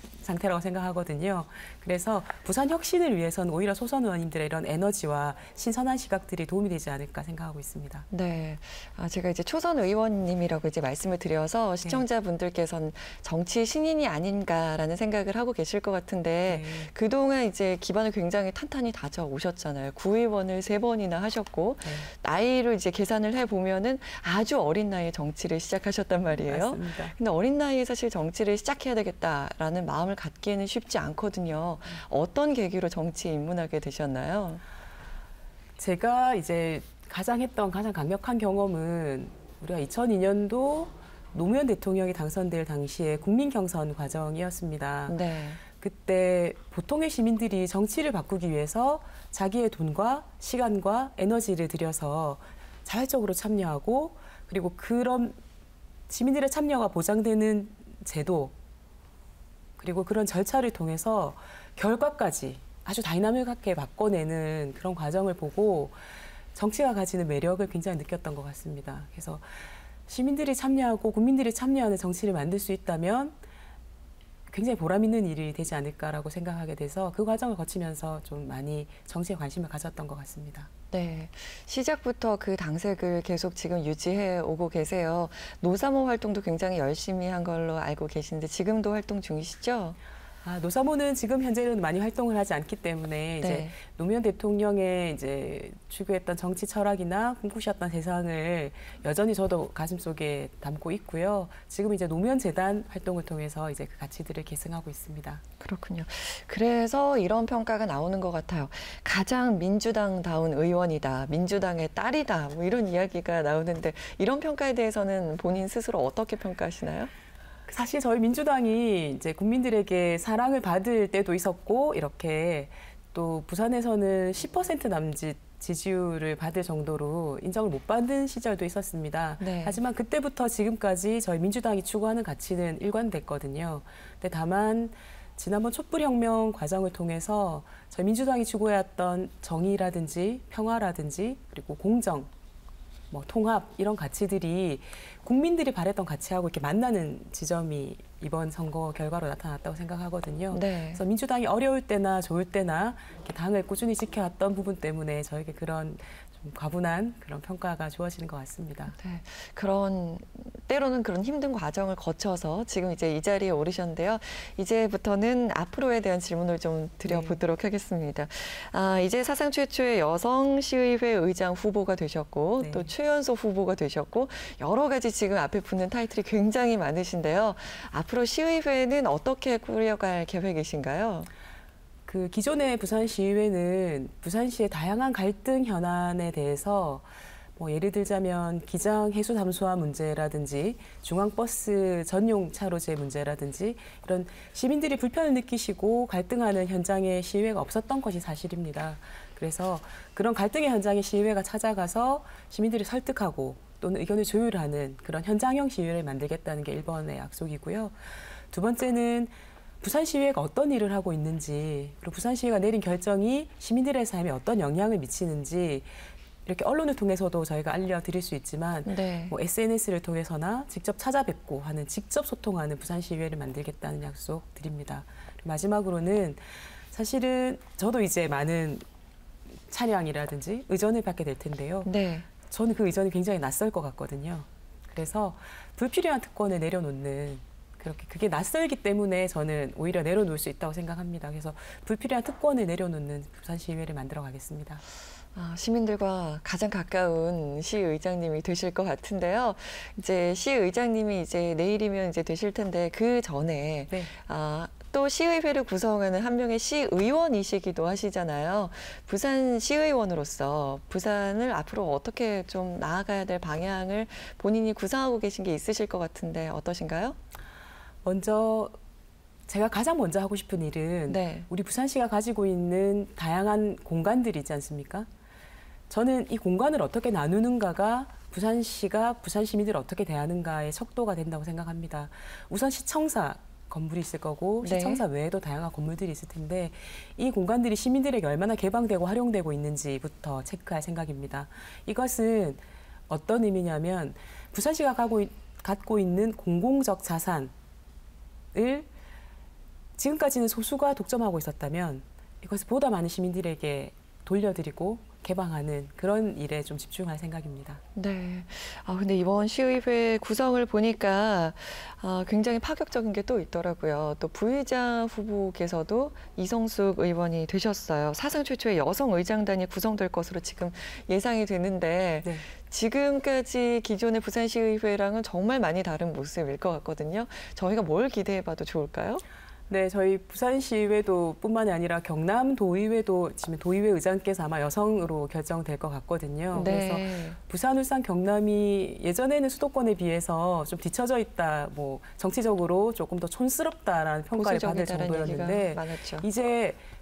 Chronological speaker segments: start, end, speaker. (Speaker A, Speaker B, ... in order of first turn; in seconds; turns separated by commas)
Speaker A: 0.2-8.1, Speaker B: 8.1-34.6, Speaker A: 16.5-16.9, Speaker A: 21.8-22.1, Speaker A: 26.4-27.1, Speaker A: 35.8-45.1, Speaker B: 45.1-45.6, Speaker A: 45.7-55.4, Speaker A: 56.1-58.5, Speaker A: 59.8-66.0, Speaker A: 66.5-73.4, Speaker A: 74.5-80.7, Speaker B: 80.9-90.0, Speaker A: 90.4-105.4, Speaker B: 93.4-93.7, Speaker B: 105.6-117.1, Speaker A: 117.7-142.3, Speaker B: 129.4-129.8, Speaker A: 143.1-158.9, Speaker B: 150.5-151.0, Speaker B: 158.9-181.3, Speaker A: 167.1-167.4, Speaker A: 172.6-172.9, Speaker A: 182.1-207.9, Speaker A: 208.5-215.9, Speaker A: 216.4-228.8, Speaker B: 218.8-219.4, Speaker A: 229.7-231.9, Speaker B: 231.8-232.3, Speaker A: 232.5-244.8, Speaker B: 245.3-267.2, Speaker A: 268.0-268.7, Speaker A: 269.5-275.1, Speaker B: 271.1-271.5, Speaker A: 275.9-297.5, Speaker B: 284.6-285.0, Speaker A: 298.5-298.9, Speaker A: 300.0-307.8, Speaker B: 307.9-329.2, Speaker A: 329.7-346.8, Speaker B: 336.5-337.4, Speaker B: 344.3-346.3